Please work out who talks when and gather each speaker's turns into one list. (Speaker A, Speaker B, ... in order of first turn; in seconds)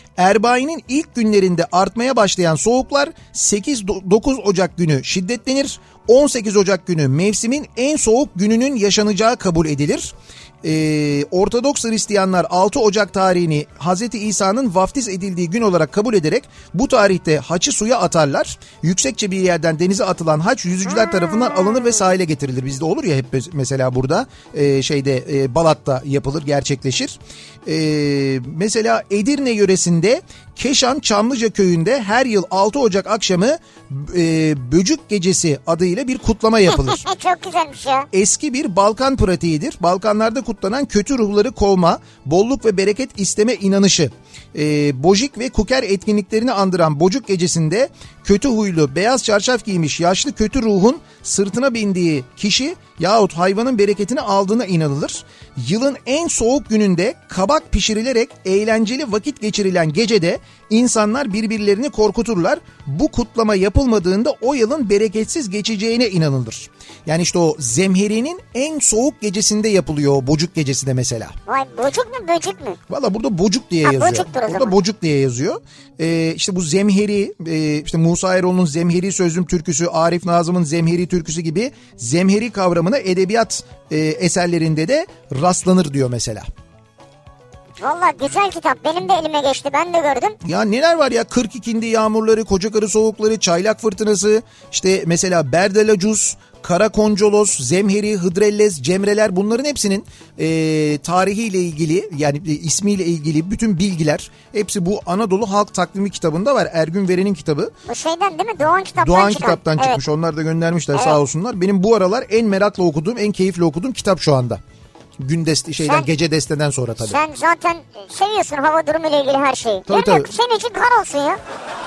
Speaker A: 0.2-37.0, 38.1-71.4, 72.9-86.5, 90.4-107.7, 109.0-114.6, 115.2-117.2, 119.9-120.3
Speaker B: 20.9-22.0, 36.7-38.1, 71.5-72.8, 73.8-74.8, 87.8-90.4, 107.9-110.0, 117.0-121.4